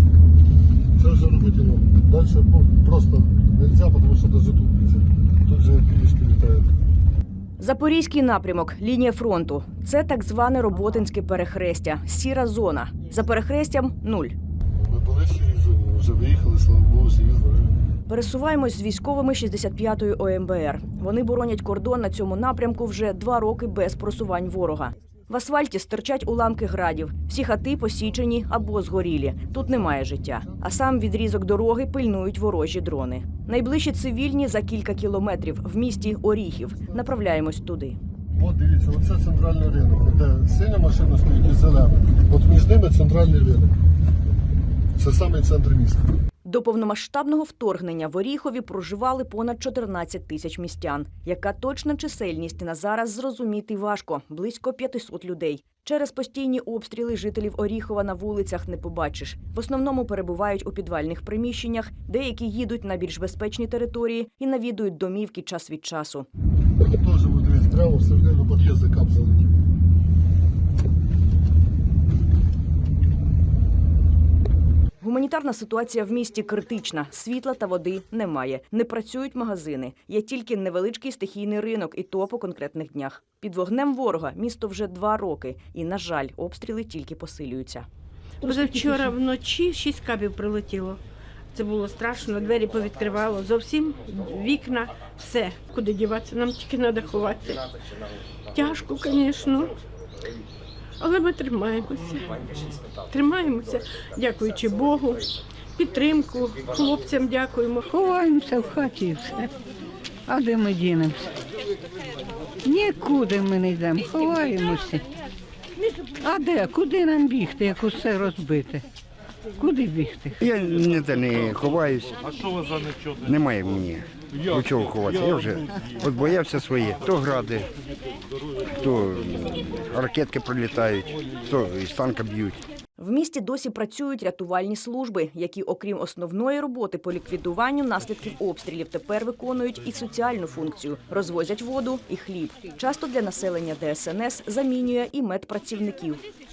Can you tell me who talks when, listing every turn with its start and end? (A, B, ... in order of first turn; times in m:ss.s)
0:01.0-0:06.7 A
0:07.6-0:14.4 B
0:14.8-0:17.9 A
0:18.1-0:38.0 B
0:29.4-0:30.6 A
0:38.3-0:43.8 A
0:45.0-0:46.1 A
0:46.4-1:06.3 B
1:06.8-1:09.5 A
1:15.0-1:27.9 B
1:28.4-1:31.0 C
1:31.5-1:37.7 C
1:38.5-1:39.8 C
1:41.0-1:48.0 C
1:47.9-1:49.5 D
1:50.3-1:51.3 D
1:52.6-1:55.0 D
1:56.2-1:58.8 D
1:59.6-2:00.4 D
2:00.4-2:02.3 E
2:03.2-2:07.7 E
2:08.7-2:12.6 E
2:13.0-2:26.2 B